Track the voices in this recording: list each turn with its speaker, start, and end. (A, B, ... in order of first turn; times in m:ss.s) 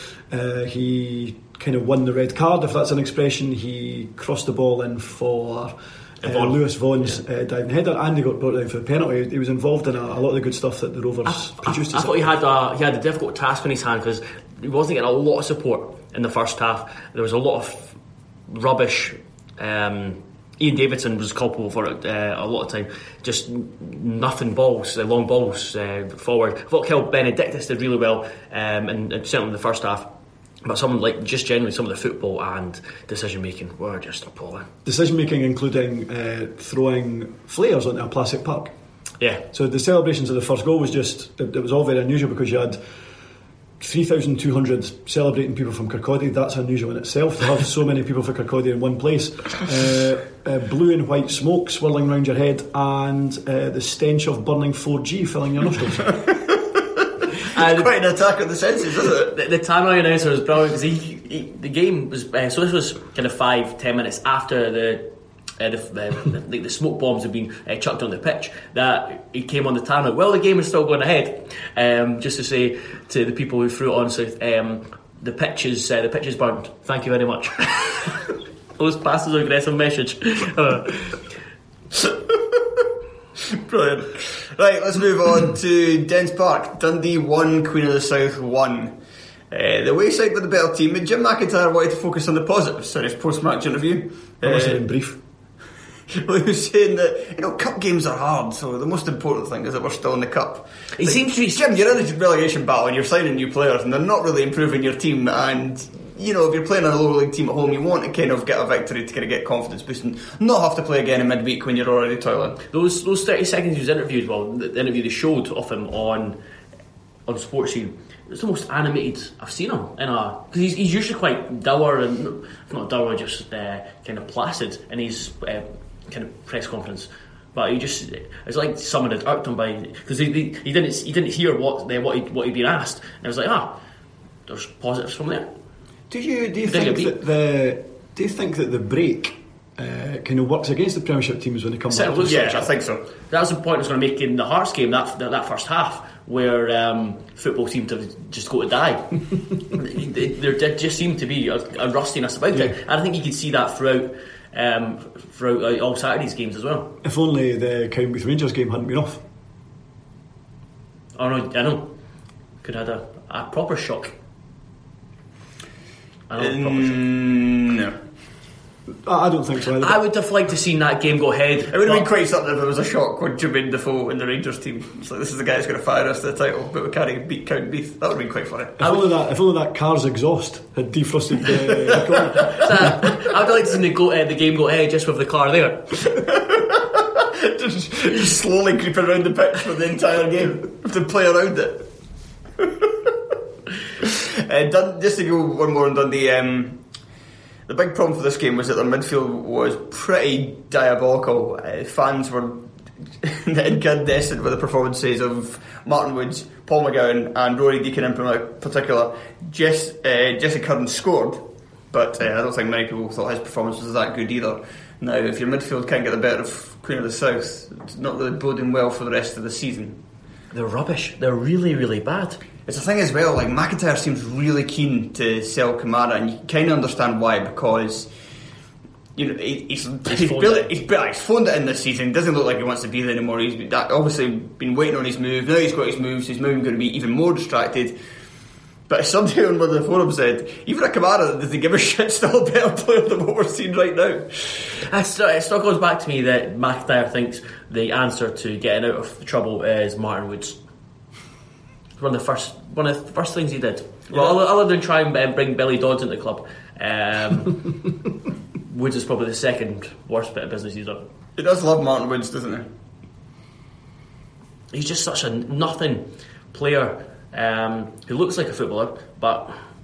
0:00.3-0:12.3 A
0:06.2-0:07.2 B
0:11.3-0:18.0 B
0:18.5-0:30.1 B
0:30.6-0:34.7 B
0:34.8-0:38.7 A
0:39.5-0:42.8 A
0:43.8-0:56.2 A
0:57.5-0:57.9 B
0:57.6-0:59.3 C
0:59.3-1:18.2 B
1:18.8-1:21.2 B
1:22.0-1:22.9 C
1:23.5-1:29.0 C
1:29.5-1:34.8 C
1:34.4-1:35.2 A
1:36.1-1:52.6 C
1:41.0-1:41.6 B
1:52.7-1:56.4 B
1:57.3-2:13.8 B
2:14.5-2:15.5 B
2:16.1-2:22.6 A
2:16.7-2:17.1 B
2:21.9-2:22.7 B
2:22.2-2:23.0 C
2:23.3-2:29.1 B
2:29.7-2:36.9 B
2:37.0-2:39.2 A
2:41.2-2:41.9 B
2:42.6-2:44.1 B
2:46.3-2:47.0 B
2:46.4-2:48.0 C
2:49.0-2:50.0 A
2:49.8-2:52.1 B
2:51.7-2:58.9 C
2:58.8-3:03.0 A
3:01.5-3:02.6 C
3:02.5-3:05.9 B
3:06.2-3:11.9 C
3:12.6-3:12.9 C
3:14.0-3:16.8 C
3:17.7-3:22.6 C
3:23.2-3:40.0 C
3:40.5-3:42.4 B
3:42.7-3:48.1 C
3:49.2-3:58.0 C
3:50.1-3:50.7 B
3:58.9-4:04.7 C
4:04.9-4:10.6 B
4:12.0-4:17.6 B
4:14.1-4:14.4 C
4:18.7-4:21.1 B
4:21.4-4:22.7 C
4:24.7-4:29.5 B